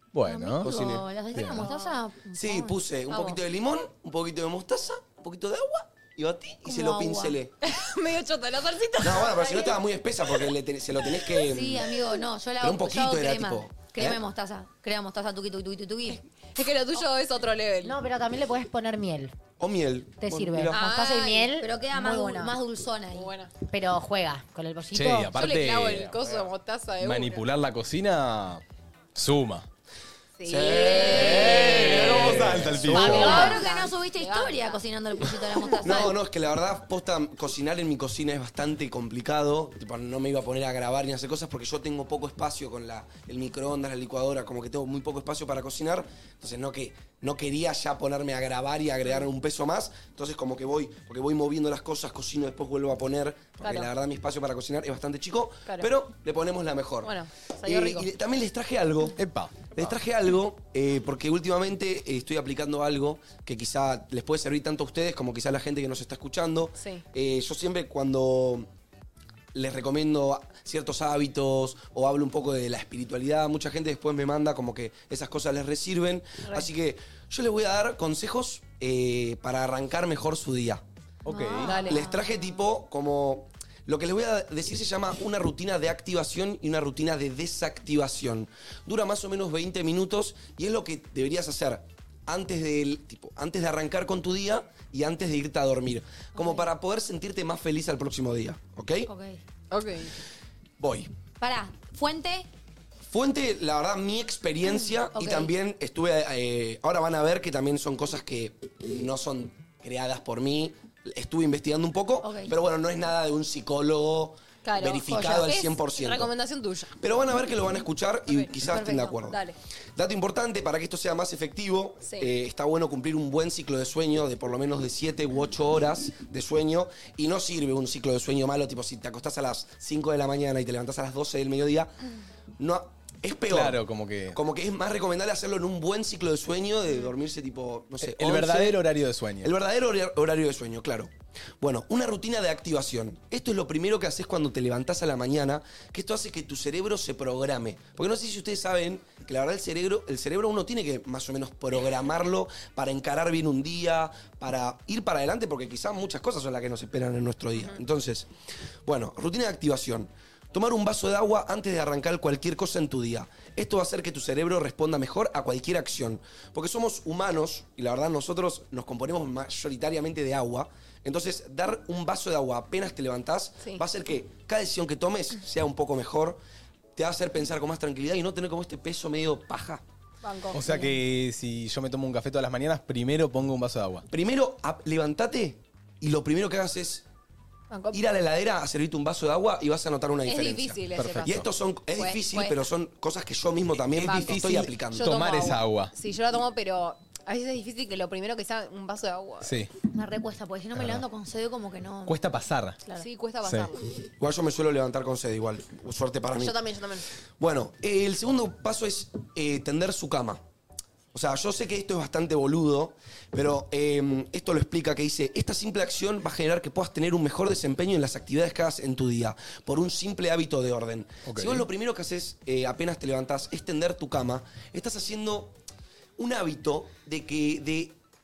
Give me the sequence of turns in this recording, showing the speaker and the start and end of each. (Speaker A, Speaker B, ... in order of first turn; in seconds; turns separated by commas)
Speaker A: 0.1-0.8, Speaker B: 0.2-2.8, Speaker C: 0.6-1.0, Speaker A: 1.3-1.7, Speaker D: 1.6-2.0, Speaker C: 2.3-7.5, Speaker D: 3.1-3.4, Speaker B: 6.7-7.4, Speaker D: 7.6-9.8, Speaker C: 9.0-11.9, Speaker B: 11.4-16.2, Speaker C: 12.6-14.2, Speaker D: 16.6-18.0, Speaker E: 17.8-19.3, Speaker C: 19.6-20.8, Speaker E: 20.2-21.7, Speaker D: 20.7-22.6, Speaker B: 21.6-23.3, Speaker D: 23.1-23.5, Speaker E: 23.7-25.3, Speaker A: 24.9-26.2, Speaker D: 25.3-27.4, Speaker A: 27.0-28.6, Speaker A: 29.1-29.7, Speaker D: 30.4-34.8, Speaker C: 30.4-33.5, Speaker A: 30.9-33.6, Speaker B: 32.9-36.2, Speaker D: 35.6-36.0, Speaker C: 35.8-57.1, Speaker D: 53.6-53.9, Speaker D: 57.0-58.1, Speaker C: 57.6-59.2, Speaker A: 59.2-60.0, Speaker C: 59.7-68.7, Speaker D: 66.8-67.0, Speaker C: 69.5-80.8, Speaker A: 81.2-81.7, Speaker B: 81.3-82.2, Speaker D: 81.6-82.1, Speaker C: 81.7-99.1, Speaker B: 96.4-96.7, Speaker B: 99.1-99.4, Speaker D: 99.7-100.2, Speaker C: 100.8-101.1, Speaker B: 101.4-102.5, Speaker C: 103.1-116.3, Speaker B: 104.7-105.5, Speaker B: 112.2-112.5, Speaker D: 114.6-117.0, Speaker B: 115.1-115.5, Speaker C: 117.0-119.4, Speaker B: 118.6-119.2, Speaker D: 119.3-119.6, Speaker C: 120.0-131.9, Speaker C: 132.6-133.8, Speaker A: 133.5-134.4, Speaker C: 134.3-138.8, Speaker A: 138.0-139.5, Speaker C: 139.4-158.3, Speaker C: 158.9-176.4, Speaker C: 177.0-179.8, Speaker D: 180.2-180.9, Speaker A: 180.5-184.1, Speaker C: 184.1-187.1, Speaker D: 187.7-188.0, Speaker C: 187.9-195.1, Speaker D: 190.3-192.6, Speaker A: 190.9-191.5, Speaker D: 193.9-199.5, Speaker A: 195.0-195.9, Speaker A: 199.4-199.7, Speaker B: 199.9-202.2, Speaker A: 200.8-201.0, Speaker A: 202.1-202.8, Speaker D: 203.0-203.8, Speaker A: 203.4-203.7, Speaker C: 204.2-206.6, Speaker D: 206.3-207.1, Speaker C: 207.4-210.4, Speaker C: 211.1-225.5, Speaker A: 221.3-221.7, Speaker C: 226.2-227.9